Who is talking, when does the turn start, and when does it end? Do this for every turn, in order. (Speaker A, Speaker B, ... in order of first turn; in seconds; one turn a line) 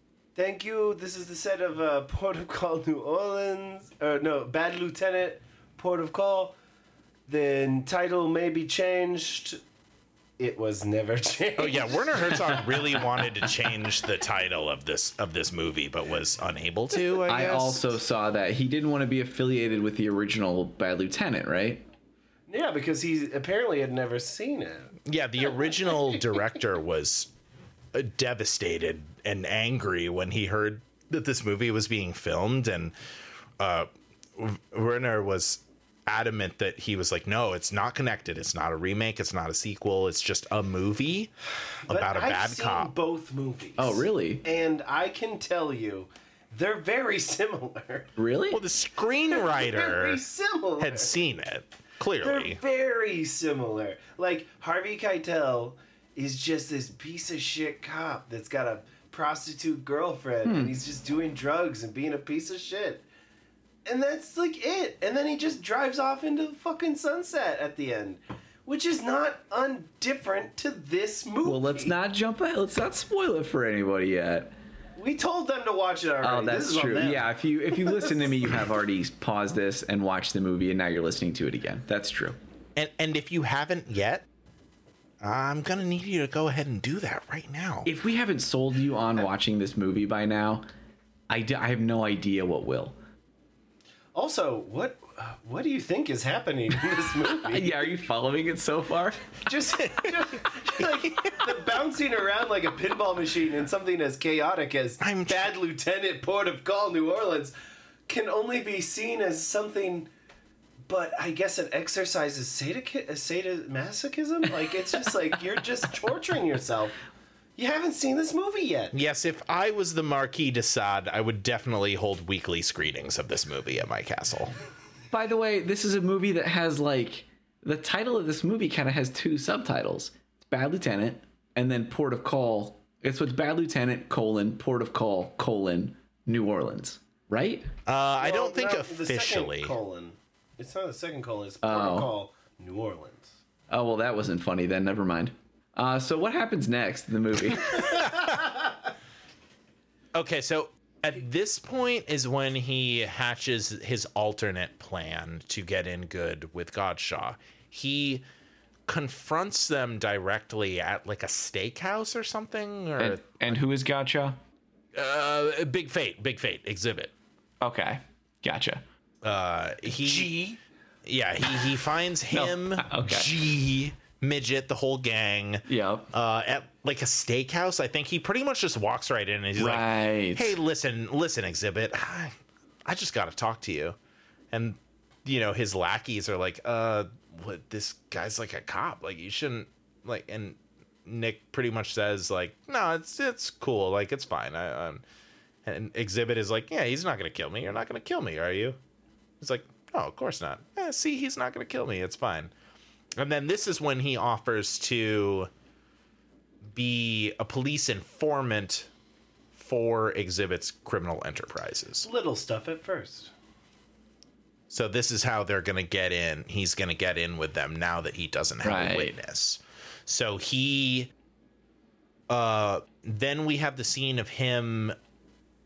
Speaker A: 0.3-6.5
Speaker A: 7.3-9.6
Speaker A: 10.4-12.6
Speaker B: 11.6-17.9
Speaker C: 17.3-21.8
Speaker A: 22.5-25.0
Speaker B: 25.1-27.3
Speaker B: 27.9-32.9
Speaker B: 33.6-41.3
Speaker A: 41.8-48.1
Speaker B: 41.9-42.9
Speaker C: 43.8-44.4
Speaker C: 48.2-48.6
Speaker B: 48.5-50.2
Speaker A: 49.3-51.1
Speaker B: 50.8-52.6
Speaker A: 52.2-63.0
Speaker C: 60.4-60.8
Speaker A: 63.8-71.9
Speaker C: 71.4-74.5
Speaker A: 75.0-78.6
Speaker C: 76.2-82.4
Speaker B: 82.8-84.2
Speaker B: 85.2-87.9
Speaker C: 87.8-90.7
Speaker C: 91.3-92.9
Speaker A: 94.1-97.9
Speaker C: 97.4-99.3
Speaker A: 99.4-107.5
Speaker B: 99.8-101.5
Speaker B: 105.0-105.5
Speaker A: 108.1-110.1
Speaker A: 110.8-117.0
Speaker A: 117.6-118.9
Speaker B: 118.9-124.5
Speaker C: 125.1-137.7
Speaker B: 137.9-139.7
Speaker A: 138.2-143.3
Speaker C: 141.6-142.1
Speaker C: 143.7-147.9
Speaker B: 147.8-148.4
Speaker A: 147.8-148.7
Speaker B: 150.1-158.2
Speaker B: 158.9-163.6
Speaker C: 163.0-164.4
Speaker B: 164.9-167.1
Speaker C: 167.6-168.8
Speaker B: 169.2-170.3
Speaker A: 170.1-170.6
Speaker B: 171.0-182.3
Speaker C: 172.3-173.3
Speaker C: 175.7-176.1
Speaker C: 179.6-180.6
Speaker B: 182.8-184.0
Speaker B: 184.5-195.0
Speaker B: 195.6-198.8
Speaker B: 199.4-202.5
Speaker B: 203.2-205.5
Speaker B: 206.7-208.9
Speaker B: 209.5-212.1
Speaker A: 212.0-213.3
Speaker B: 214.7-221.1
Speaker C: 218.6-219.1
Speaker B: 222.3-224.9